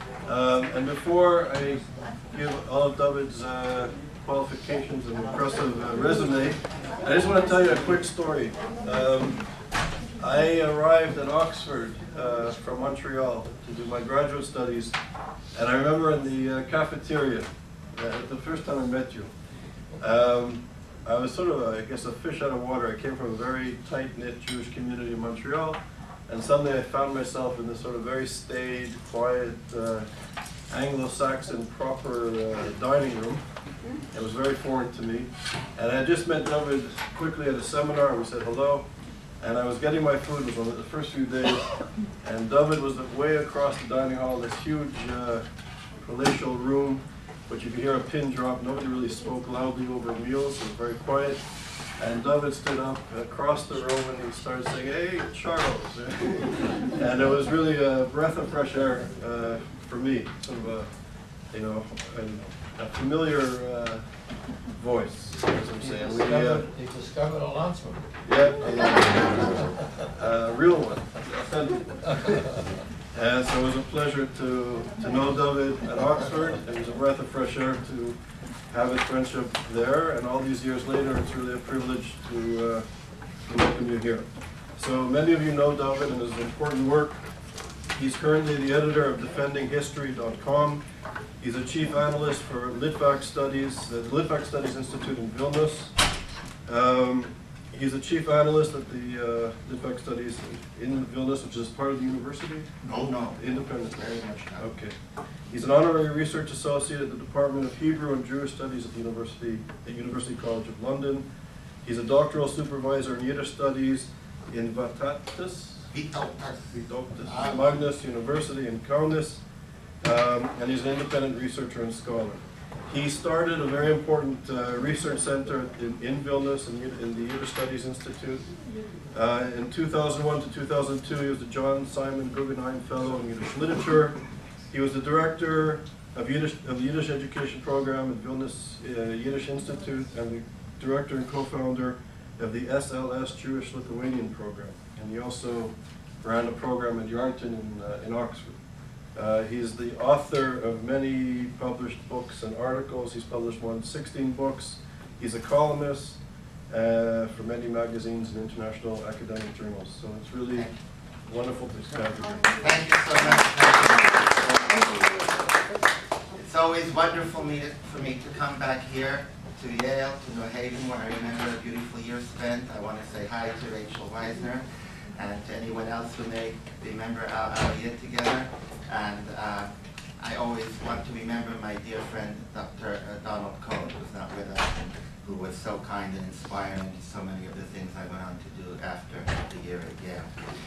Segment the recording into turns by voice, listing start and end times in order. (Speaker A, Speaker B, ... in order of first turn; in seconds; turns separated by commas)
Speaker A: 0.2-9.5, Speaker A: 10.1-14.9, Speaker A: 15.5-19.3, Speaker A: 20.0-30.1, Speaker A: 30.7-38.9, Speaker A: 39.4-45.4, Speaker A: 46.0-64.0, Speaker A: 64.6-66.7, Speaker B: 65.8-68.0, Speaker A: 68.2-82.9, Speaker A: 83.4-87.2, Speaker A: 87.9-90.8, Speaker A: 91.4-95.9, Speaker A: 96.6-102.8, Speaker C: 102.8-104.7, Speaker A: 103.3-104.0, Speaker A: 104.6-104.9, Speaker A: 105.5-111.2, Speaker A: 111.8-115.9, Speaker C: 115.9-116.7, Speaker A: 116.7-119.4, Speaker C: 117.3-117.7, Speaker A: 120.0-128.5, Speaker A: 129.1-148.6, Speaker A: 149.1-160.7, Speaker A: 161.2-162.5, Speaker C: 162.6-165.0, Speaker C: 166.3-174.6, Speaker C: 175.1-190.4